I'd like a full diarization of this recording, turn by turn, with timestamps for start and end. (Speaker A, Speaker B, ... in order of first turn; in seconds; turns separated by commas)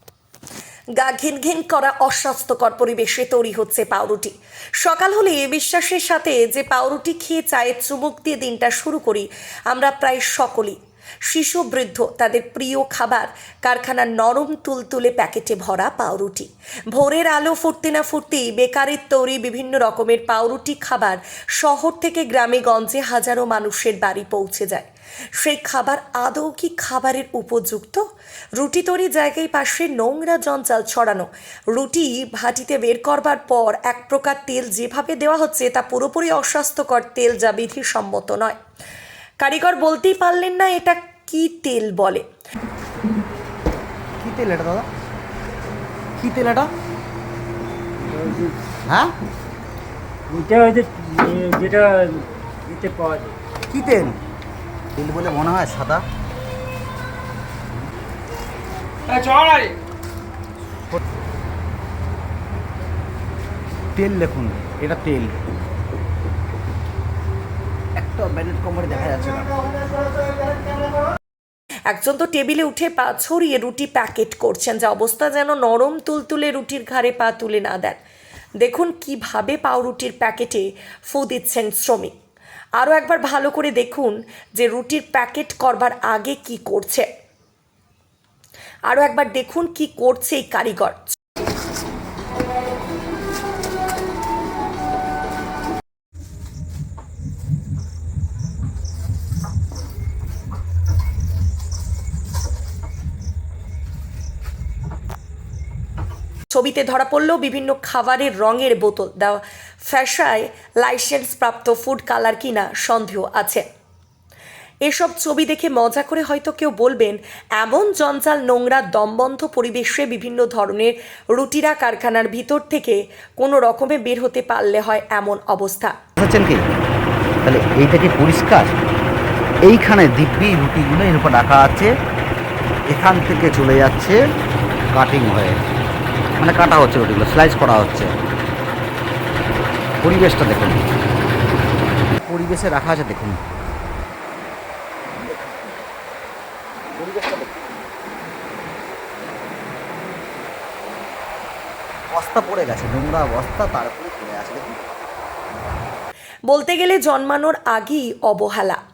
Speaker A: 1.0-28.0, Speaker A: 28.6-38.6, Speaker A: 39.4-42.2, Speaker B: 44.2-44.9, Speaker B: 46.2-46.7, Speaker C: 48.0-48.6, Speaker B: 48.9-49.1, Speaker C: 50.3-53.4, Speaker B: 53.7-54.2, Speaker B: 55.0-56.0, Speaker C: 59.1-59.7, Speaker B: 63.9-65.3, Speaker B: 68.0-69.5, Speaker A: 71.9-78.0, Speaker A: 78.6-82.1, Speaker A: 82.8-87.1, Speaker A: 88.9-91.2, Speaker A: 106.5-113.6, Speaker A: 114.8-126.0, Speaker B: 126.2-126.6, Speaker B: 127.4-128.7, Speaker B: 129.7-131.9, Speaker B: 132.9-134.2, Speaker B: 134.9-135.6, Speaker B: 136.4-138.1, Speaker B: 140.0-140.8, Speaker B: 142.3-143.4, Speaker B: 145.2-145.8, Speaker B: 147.0-147.7, Speaker B: 152.1-154.8, Speaker A: 156.5-158.8